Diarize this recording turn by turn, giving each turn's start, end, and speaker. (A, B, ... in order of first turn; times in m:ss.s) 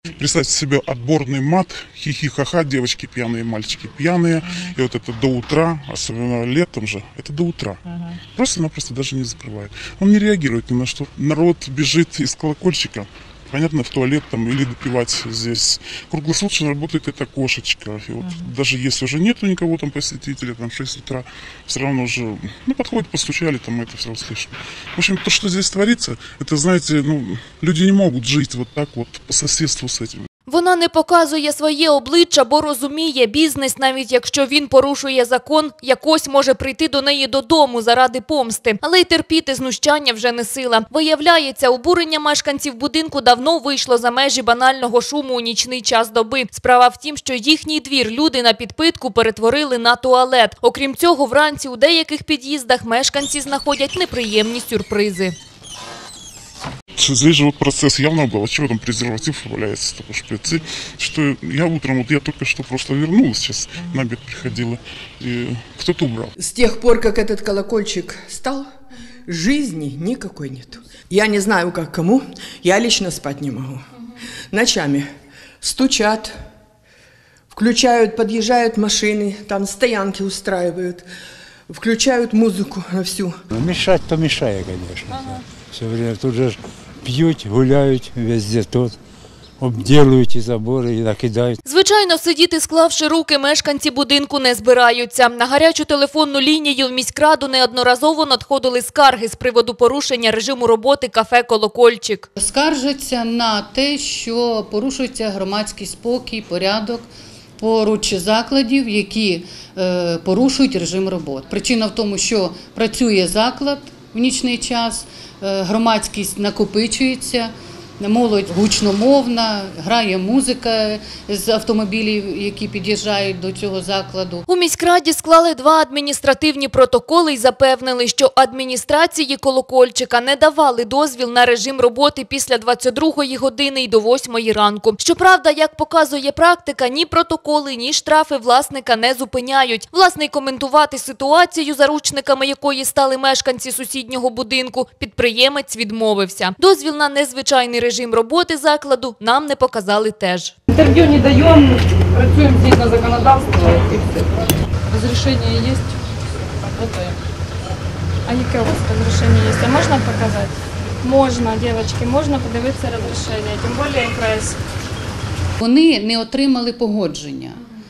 0:00.2-0:30.3 A
0:30.5-0:55.4 B
0:57.0-1:06.3 A
1:06.4-1:08.7 C
1:09.3-1:13.8 C
1:14.5-1:15.1 C
1:15.6-1:16.3 C
1:17.5-1:21.1 C
1:21.7-1:23.3 C
1:23.6-1:26.5 D
1:27.1-1:28.9 D
1:29.6-1:31.6 D
1:31.6-1:42.3 B
1:42.4-2:04.5 E
2:04.5-2:30.6 B
2:30.7-2:34.3 F
2:34.9-2:35.8 F
2:36.7-2:37.1 F
2:38.3-2:44.6 G
2:45.6-2:47.6 E